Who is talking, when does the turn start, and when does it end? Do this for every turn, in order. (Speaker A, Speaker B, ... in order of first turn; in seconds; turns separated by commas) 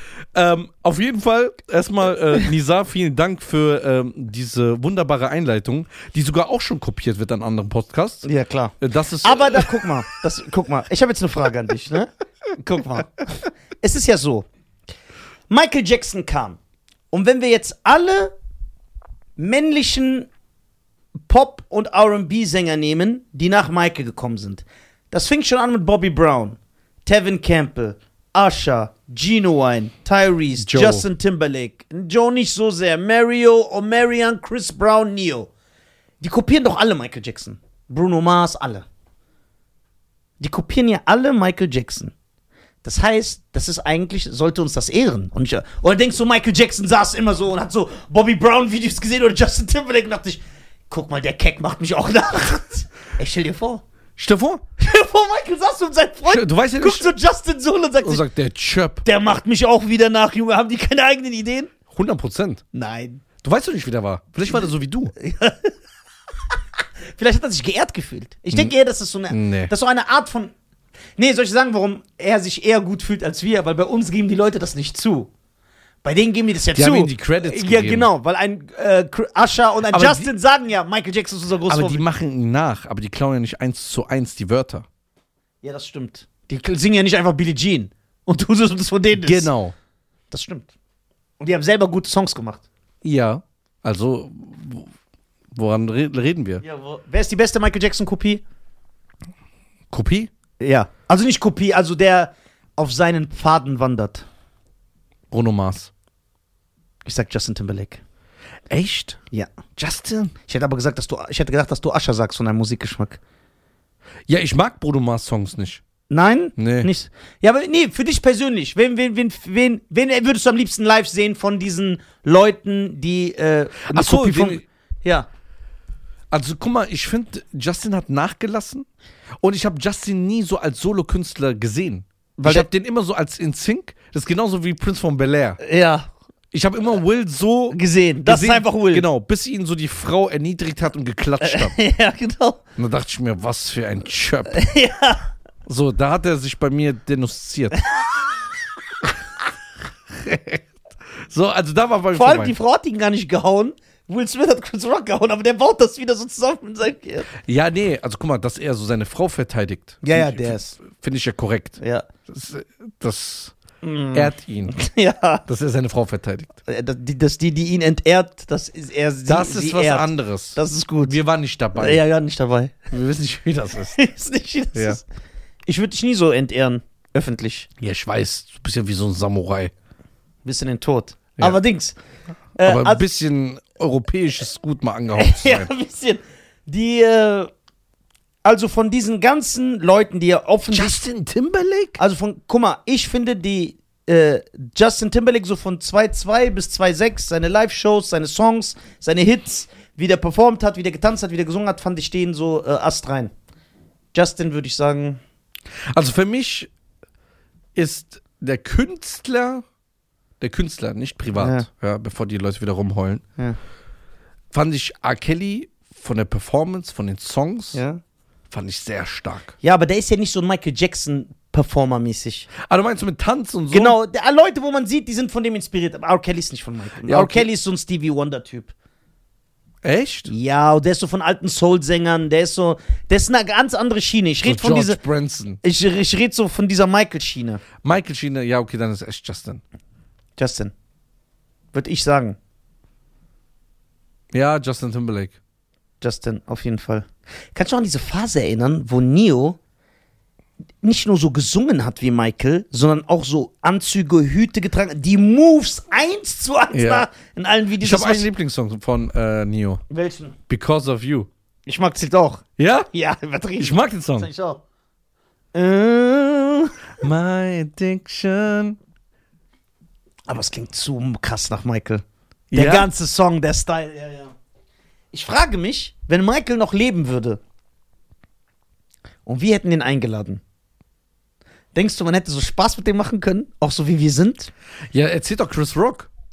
Speaker A: 0.3-8.3, Speaker B: 8.2-14.4, Speaker A: 8.8-9.9, Speaker B: 15.5-16.6, Speaker B: 17.1-18.3, Speaker B: 19.4-20.3, Speaker B: 21.3-35.5, Speaker A: 30.6-31.1, Speaker B: 36.2-38.9, Speaker B: 40.4-42.1, Speaker B: 42.8-53.8, Speaker A: 54.2-54.6, Speaker B: 54.8-58.2, Speaker A: 56.3-57.1, Speaker A: 58.0-59.0, Speaker B: 59.0-61.7, Speaker A: 61.9-62.6, Speaker B: 62.7-63.2, Speaker A: 63.4-65.1, Speaker B: 65.2-65.7, Speaker B: 67.1-70.5, Speaker A: 69.3-69.7, Speaker B: 71.2-75.3, Speaker B: 76.0-82.0, Speaker A: 76.7-78.1, Speaker A: 79.9-80.3, Speaker A: 81.7-84.8, Speaker B: 85.6-89.5, Speaker A: 89.1-89.7, Speaker B: 90.3-90.7, Speaker B: 91.4-92.6, Speaker A: 93.0-94.9, Speaker A: 95.5-96.6, Speaker B: 96.6-98.4, Speaker A: 99.9-100.3, Speaker B: 100.6-104.2, Speaker A: 105.3-105.9, Speaker B: 107.0-108.0, Speaker A: 108.7-109.2, Speaker A: 109.8-110.3, Speaker B: 110.5-113.2, Speaker A: 114.3-115.8, Speaker B: 116.1-125.3, Speaker A: 116.6-116.9, Speaker A: 123.9-124.6, Speaker A: 126.3-128.9, Speaker A: 129.4-135.6, Speaker B: 132.4-132.7, Speaker B: 135.6-136.1, Speaker A: 136.5-141.8, Speaker B: 137.7-139.0, Speaker B: 141.4-142.6, Speaker A: 142.8-144.6, Speaker B: 144.5-145.3, Speaker A: 145.7-147.8, Speaker A: 150.1-150.6, Speaker A: 151.2-152.5, Speaker B: 152.1-157.3, Speaker A: 157.4-163.5, Speaker B: 160.0-160.8, Speaker B: 161.8-162.1, Speaker B: 163.8-165.4, Speaker A: 164.1-164.7, Speaker A: 165.5-166.5, Speaker B: 166.7-171.2, Speaker A: 169.3-172.0, Speaker B: 171.7-172.9, Speaker A: 172.9-174.0, Speaker B: 173.9-175.0, Speaker A: 174.7-175.0, Speaker B: 175.7-177.7, Speaker A: 177.8-179.7, Speaker B: 180.4-181.9, Speaker B: 182.6-183.0, Speaker A: 182.6-185.7, Speaker B: 185.2-187.5, Speaker B: 188.4-191.0, Speaker A: 190.7-192.0, Speaker B: 192.0-203.3, Speaker B: 204.1-205.2, Speaker A: 205.9-206.7, Speaker A: 207.7-209.6, Speaker A: 210.4-213.2, Speaker B: 211.3-211.7, Speaker A: 214.5-217.8, Speaker B: 217.7-218.0, Speaker A: 218.5-219.5, Speaker B: 219.6-222.5, Speaker A: 222.6-223.9, Speaker B: 223.7-228.7, Speaker A: 227.0-227.5, Speaker A: 229.8-230.3, Speaker B: 230.3-235.0, Speaker A: 234.4-235.6, Speaker B: 235.6-237.6, Speaker A: 237.8-239.6, Speaker B: 240.4-240.7, Speaker B: 241.7-242.4, Speaker A: 244.3-245.3, Speaker B: 246.0-249.6, Speaker B: 250.8-258.3, Speaker A: 256.7-257.1, Speaker A: 257.8-259.8, Speaker B: 259.9-260.3, Speaker A: 260.5-261.3, Speaker B: 261.6-264.6, Speaker A: 262.6-262.9, Speaker A: 263.6-264.3, Speaker B: 265.5-266.7, Speaker A: 267.0-268.8, Speaker B: 270.3-274.3, Speaker A: 272.5-272.9, Speaker B: 275.1-277.4, Speaker B: 279.2-280.4, Speaker B: 281.7-284.5, Speaker A: 284.9-286.1